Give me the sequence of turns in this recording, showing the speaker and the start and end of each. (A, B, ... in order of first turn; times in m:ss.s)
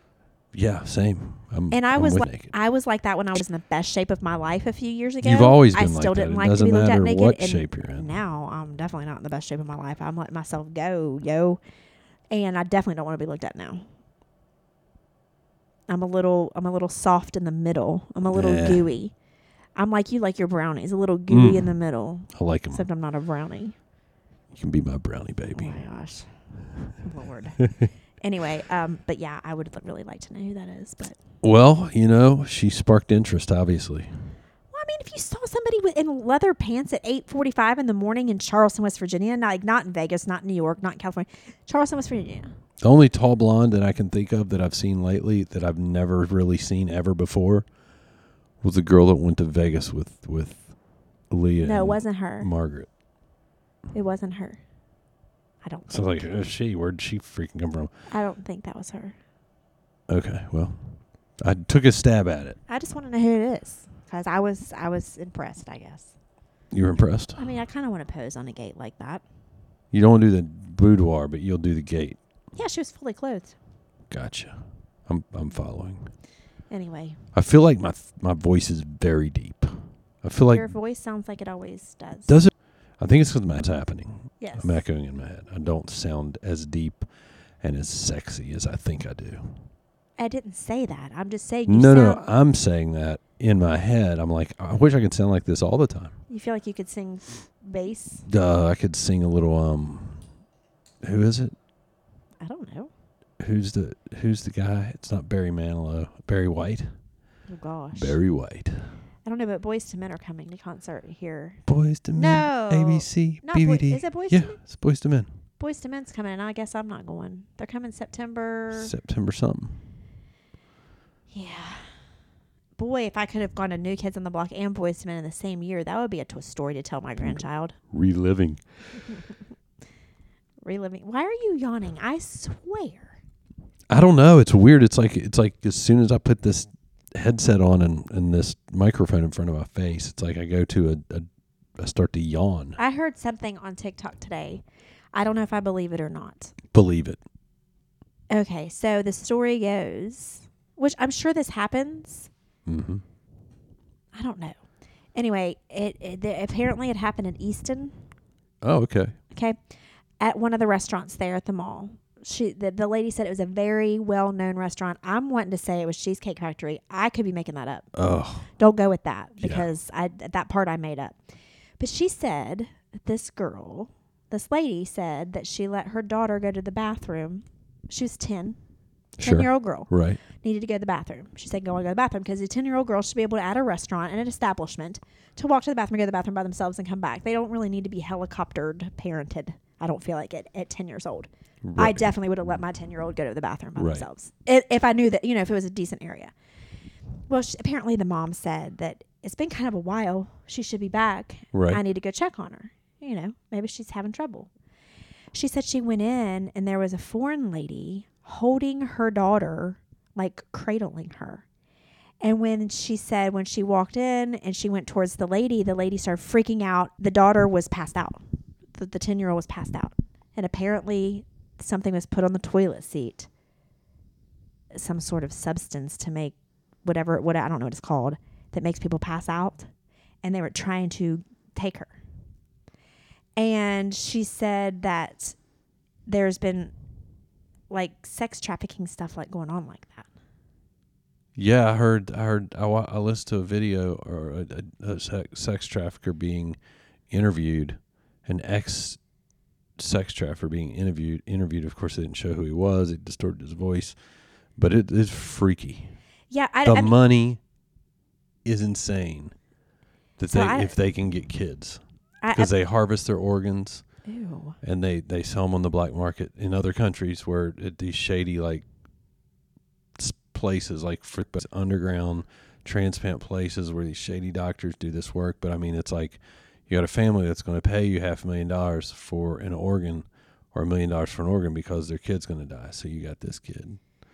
0:00.5-0:02.5 A
0:01.7-0:11.6 B
0:05.2-0:08.1 A
0:12.3-0:13.8 B
0:15.9-0:19.1 B
0:18.3-0:18.9 A
0:19.8-0:23.8 B
0:21.3-0:21.7 A
0:22.3-0:22.8 A
0:24.5-0:25.8 A
0:25.5-0:26.3 B
0:27.0-0:27.6 B
0:27.6-0:27.9 A
0:28.2-0:31.2 B
0:31.4-0:34.1 A
0:34.7-0:42.5 B
0:42.8-0:47.6 A
0:48.6-0:50.7 A
0:51.3-0:52.9 A
0:51.6-0:52.5 B
0:53.9-0:54.6 B
0:55.6-0:56.3 B
0:55.9-0:57.9 A
0:58.1-0:59.2 B
1:00.1-1:02.6 A
1:02.7-1:06.1 B
1:06.7-1:07.5 A
1:07.4-1:09.2 B
1:09.9-1:12.2 A
1:12.5-1:13.6 B
1:14.1-1:16.1 A
1:16.7-1:17.2 B
1:17.3-1:20.7 A
1:20.5-1:22.4 B
1:22.3-1:27.1 A
1:24.4-1:24.8 B
1:27.6-1:29.6 A
1:30.2-1:32.2 B
1:31.7-1:36.2 A
1:36.3-1:38.2 B
1:38.2-1:40.3 A
1:41.0-1:41.5 A
1:42.4-1:42.9 B
1:43.4-1:46.9 A
1:47.5-1:48.2 B
1:47.9-1:48.9 A
1:49.2-1:51.6 B
1:51.6-1:55.3 A
1:52.1-1:54.6 B
1:55.6-1:58.9 B
1:58.7-1:59.8 A
2:01.3-2:01.9 B
2:02.8-2:07.8 B
2:07.2-2:08.6 A
2:10.6-2:13.2 B
2:13.9-2:21.3 A
2:21.8-2:22.8 A
2:22.8-2:24.6 B
2:25.1-2:26.5 B
2:26.7-2:27.2 A
2:28.3-2:32.3 B
2:32.6-2:33.0 A
2:34.1-2:34.6 B
2:35.1-2:37.9 B
2:38.6-2:39.1 A
2:39.3-2:39.6 B
2:40.2-2:47.9 B
2:47.9-2:48.5 A
2:48.6-2:51.2 B
2:49.4-2:49.7 A
2:51.8-2:58.6 B
2:59.2-3:00.2 A
2:59.2-3:16.3 B
3:11.6-3:12.1 A
3:13.8-3:14.1 A
3:17.3-3:24.5 B
3:21.5-3:21.8 A
3:25.3-3:31.4 B
3:32.2-3:38.2 B
3:38.8-3:43.3 B
3:44.7-3:49.7 B
3:50.2-3:51.9 B
3:53.4-3:55.4 B
3:56.1-3:56.7 B
3:57.7-4:00.1 B
4:01.4-4:06.6 A
4:07.1-4:09.0 A
4:09.8-4:14.0 A
4:14.6-4:15.9 A
4:16.3-4:17.0 B
4:16.6-4:17.4 A
4:18.4-4:19.3 A
4:20.2-4:21.8 A
4:20.3-4:20.7 B
4:22.2-4:22.5 B
4:22.3-4:23.8 A
4:24.0-4:24.6 B
4:24.6-4:28.6 A
4:30.0-4:43.8 A